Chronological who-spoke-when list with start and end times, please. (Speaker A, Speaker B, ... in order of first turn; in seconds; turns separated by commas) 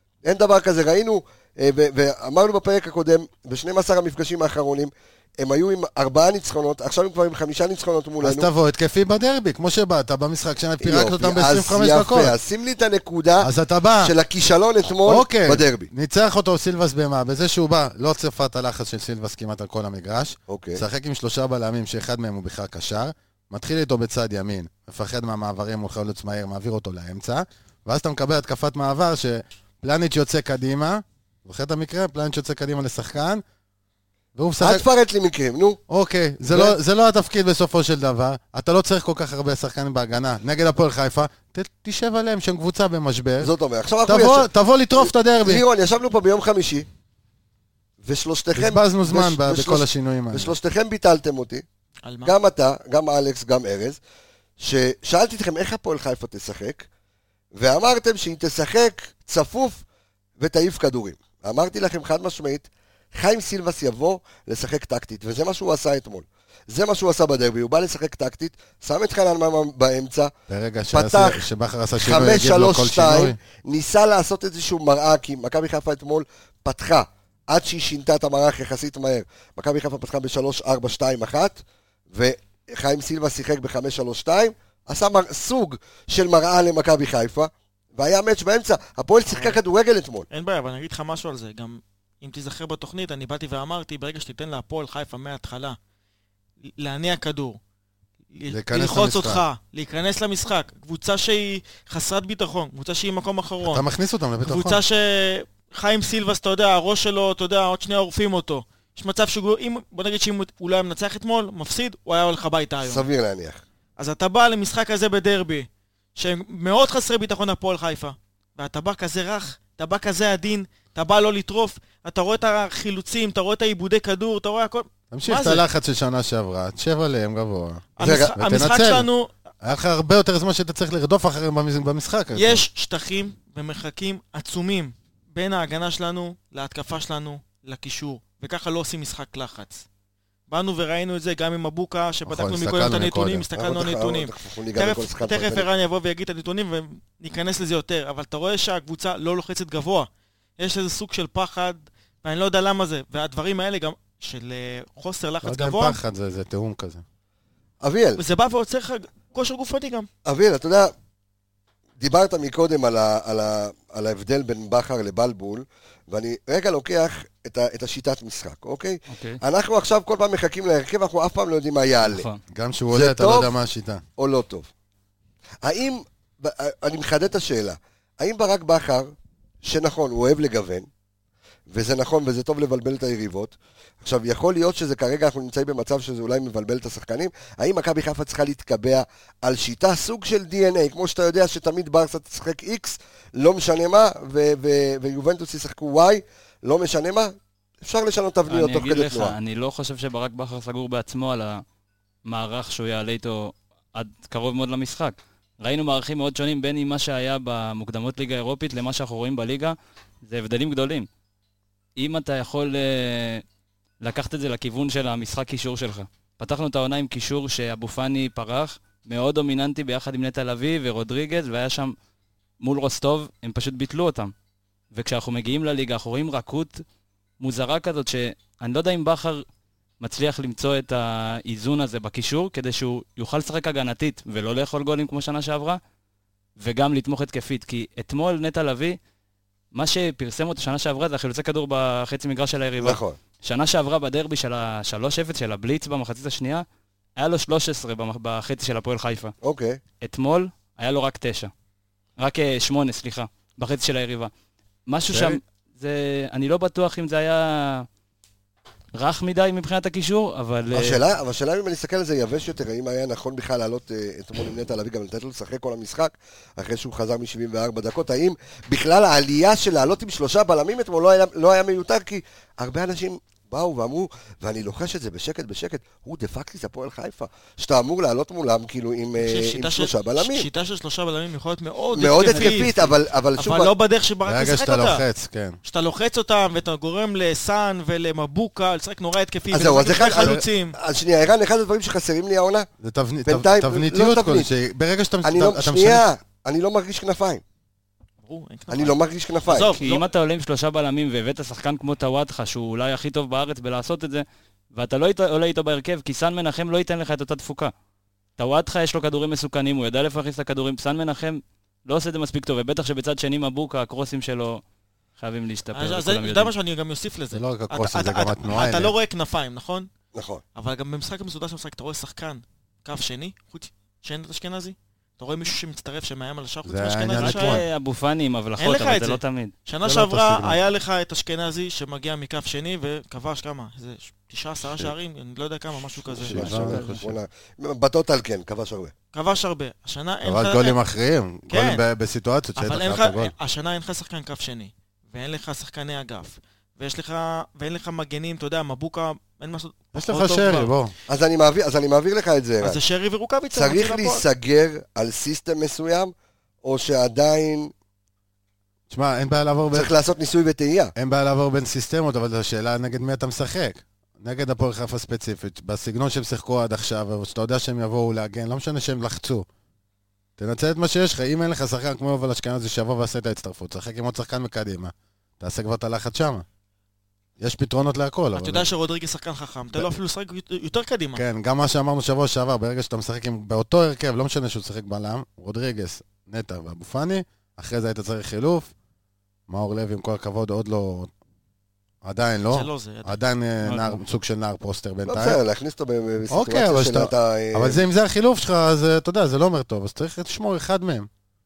Speaker A: 0.2-8.5, Speaker B: 8.2-12.3, Speaker A: 10.8-13.5, Speaker B: 13.4-14.1, Speaker A: 14.0-15.9, Speaker B: 15.0-33.4, Speaker A: 20.5-20.8, Speaker B: 34.4-34.8, Speaker A: 34.6-35.8, Speaker B: 35.9-43.5, Speaker A: 36.5-36.8, Speaker A: 43.4-46.9, Speaker B: 44.1-45.6, Speaker A: 48.0-51.6, Speaker B: 48.5-50.5, Speaker C: 52.0-52.3, Speaker A: 52.2-54.0, Speaker A: 54.6-56.9, Speaker A: 57.5-59.8, Speaker A: 60.4-70.3, Speaker B: 70.5-73.4, Speaker A: 70.9-71.5, Speaker A: 72.0-81.6, Speaker A: 82.1-90.3, Speaker C: 89.2-89.6, Speaker C: 90.3-95.8, Speaker C: 96.8-97.6, Speaker C: 98.3-103.8, Speaker B: 98.5-99.4, Speaker B: 103.6-104.8, Speaker C: 104.4-113.0, Speaker A: 112.8-113.6, Speaker C: 114.0-125.6, Speaker B: 125.1-129.1, Speaker C: 128.0-129.3, Speaker A: 128.0-128.3, Speaker B: 129.6-132.6, Speaker C: 132.3-139.8, Speaker C: 140.5-156.0, Speaker B: 142.2-143.5, Speaker A: 143.5-145.7, Speaker B: 155.4-157.0, Speaker A: 157.8-158.2, Speaker C: 158.2-160.1, Speaker A: 160.2-160.9, Speaker A: 162.0-172.2, Speaker D: 169.1-169.4, Speaker D: 172.0-172.4, Speaker B: 172.5-174.0, Speaker A: 172.9-173.5, Speaker A: 174.2-174.7, Speaker A: 175.6-179.1, Speaker A: 179.6-180.9, Speaker A: 181.7-199.3, Speaker D: 198.5-201.6, Speaker D: 202.2-211.1, Speaker D: 212.0-213.4, Speaker D: 214.0-221.9, Speaker D: 222.6-224.3, Speaker D: 224.9-226.8, Speaker D: 227.4-229.4, Speaker D: 230.0-235.8, Speaker D: 236.6-239.0, Speaker D: 239.7-246.6, Speaker A: 242.8-243.2, Speaker D: 247.2-249.3, Speaker A: 249.4-249.8, Speaker D: 250.0-251.5, Speaker D: 252.2-254.3, Speaker D: 254.9-257.9, Speaker A: 255.1-255.4, Speaker D: 258.9-261.0, Speaker A: 260.7-280.5, Speaker C: 279.2-285.0, Speaker A: 281.9-283.7, Speaker D: 282.2-282.7, Speaker B: 284.2-285.6, Speaker C: 285.6-290.8, Speaker A: 289.5-292.7, Speaker B: 290.2-290.4, Speaker B: 292.8-296.0, Speaker A: 293.2-294.5, Speaker A: 295.2-297.4, Speaker C: 298.2-300.1, Speaker A: 298.7-299.7, Speaker D: 299.6-307.7, Speaker D: 308.4-314.6, Speaker D: 315.2-316.5, Speaker C: 315.7-319.9, Speaker B: 317.3-318.9, Speaker A: 320.1-320.4, Speaker C: 320.5-327.6, Speaker B: 326.6-327.6, Speaker D: 327.1-329.5, Speaker C: 328.6-336.7, Speaker B: 329.8-330.6, Speaker A: 335.9-338.9, Speaker B: 336.2-337.1, Speaker D: 336.4-337.0, Speaker C: 339.1-340.8, Speaker B: 340.2-343.3, Speaker C: 341.5-341.8, Speaker C: 342.6-350.7, Speaker B: 349.9-350.9, Speaker A: 351.1-352.8, Speaker C: 352.6-354.2, Speaker A: 353.5-357.7, Speaker B: 358.9-359.9, Speaker A: 359.7-360.9, Speaker B: 360.9-369.4, Speaker B: 370.4-376.4, Speaker B: 377.4-378.7, Speaker C: 378.3-381.2, Speaker B: 381.1-388.7, Speaker B: 389.5-391.1, Speaker B: 392.0-395.4, Speaker C: 392.5-393.2, Speaker D: 393.6-394.0, Speaker A: 395.1-397.8, Speaker B: 396.3-401.1